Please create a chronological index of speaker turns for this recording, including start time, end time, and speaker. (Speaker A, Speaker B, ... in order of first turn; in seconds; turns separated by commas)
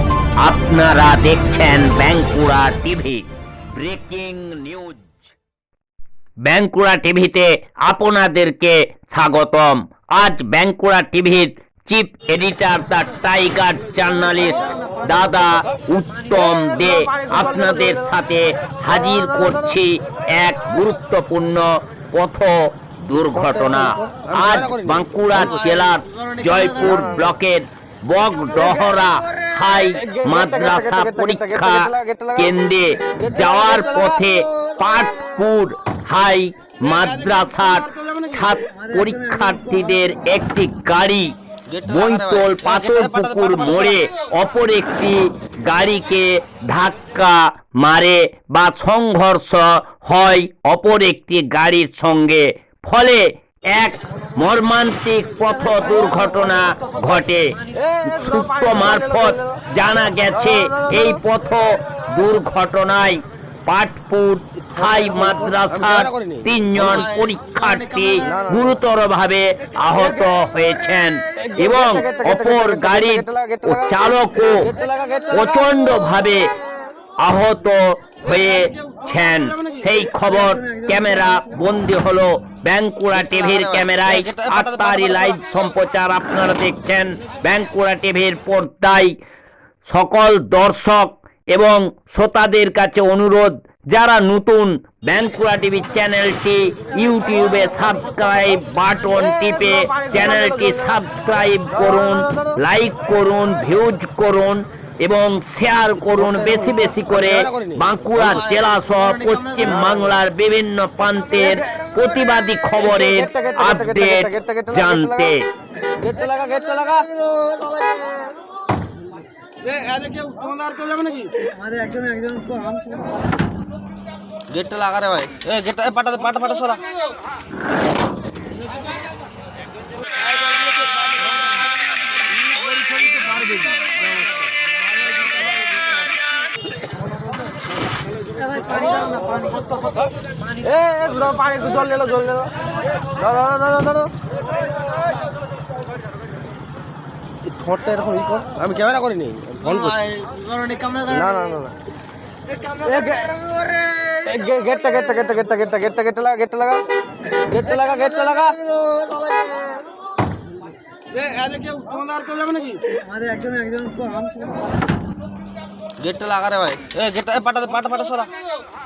Speaker A: 0.4-3.2, Speaker A: 3.7-5.3, Speaker A: 6.4-41.3, Speaker B: 24.1-24.9, Speaker B: 30.9-32.3, Speaker B: 41.8-43.3, Speaker A: 41.8-74.7, Speaker B: 58.0-59.3, Speaker B: 65.2-66.3, Speaker B: 68.3-68.6, Speaker B: 71.7-72.3, Speaker B: 73.3-73.7, Speaker B: 74.7-75.1, Speaker A: 75.2-76.4, Speaker A: 77.2-89.1, Speaker B: 83.5-84.5, Speaker A: 89.8-115.4, Speaker B: 106.3-106.5, Speaker B: 107.2-107.8, Speaker B: 113.0-114.6, Speaker B: 116.0-117.1, Speaker B: 120.0-121.1, Speaker B: 121.7-122.5, Speaker B: 124.5-126.8, Speaker B: 140.6-142.4, Speaker B: 143.4-143.9, Speaker B: 147.7-151.7, Speaker B: 153.0-153.3, Speaker B: 154.1-156.8, Speaker B: 157.5-158.6, Speaker B: 161.4-162.6, Speaker B: 166.0-168.3